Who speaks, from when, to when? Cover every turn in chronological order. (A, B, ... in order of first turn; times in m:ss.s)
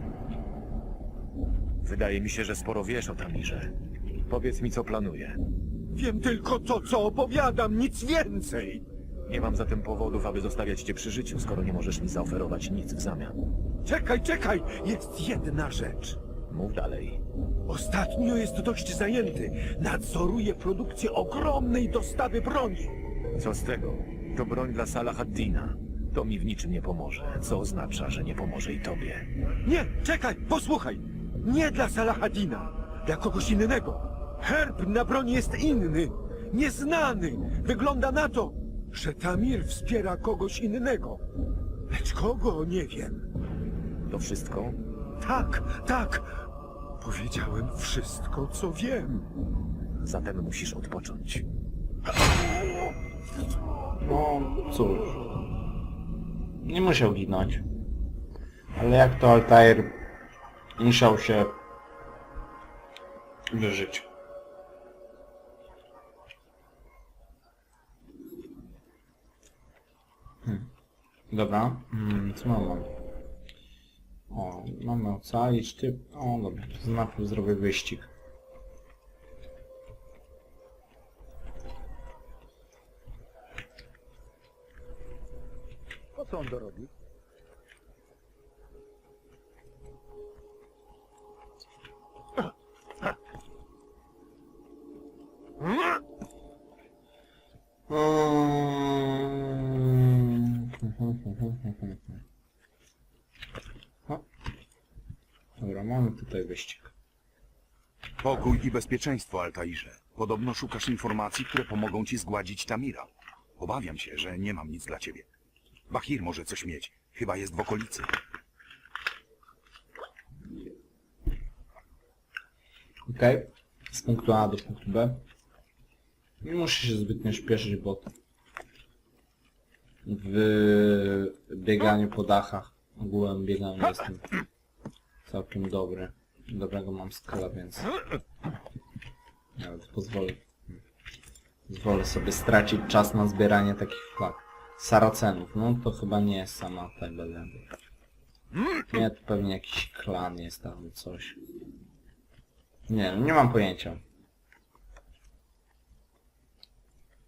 0:01.8-0:03.7 A
0:04.3-0:05.4 A
0:05.9-0:08.8 B
0:09.3-0:13.4 A
0:13.8-0:16.2 B
0:16.5-0:17.2 A
0:17.6-0:22.9 B
0:23.4-0:29.3 A
0:29.6-0:41.2 B
0:41.9-0:43.2 B
0:44.1-0:44.8 A
0:45.2-0:46.3 B
0:47.0-0:49.1 B
0:50.0-0:51.4 A
0:54.0-0:55.4 C
0:56.6-0:57.6 C
0:58.8-1:00.0 C
1:00.8-1:01.6 C
1:03.5-1:04.1 C
1:10.4-1:10.7 C
1:11.3-1:12.9 C
1:14.3-1:18.1 C
1:26.2-1:26.9 D
1:37.9-1:42.2 C
1:45.6-1:46.9 C
1:48.2-1:55.3 D
1:55.9-1:58.1 D
2:03.0-2:05.2 C
2:06.4-2:08.1 C
2:10.0-2:14.3 C
2:15.2-2:17.9 C
2:19.6-2:20.8 C
2:21.7-2:27.7 C
2:28.9-2:31.4 C
2:32.9-2:34.0 C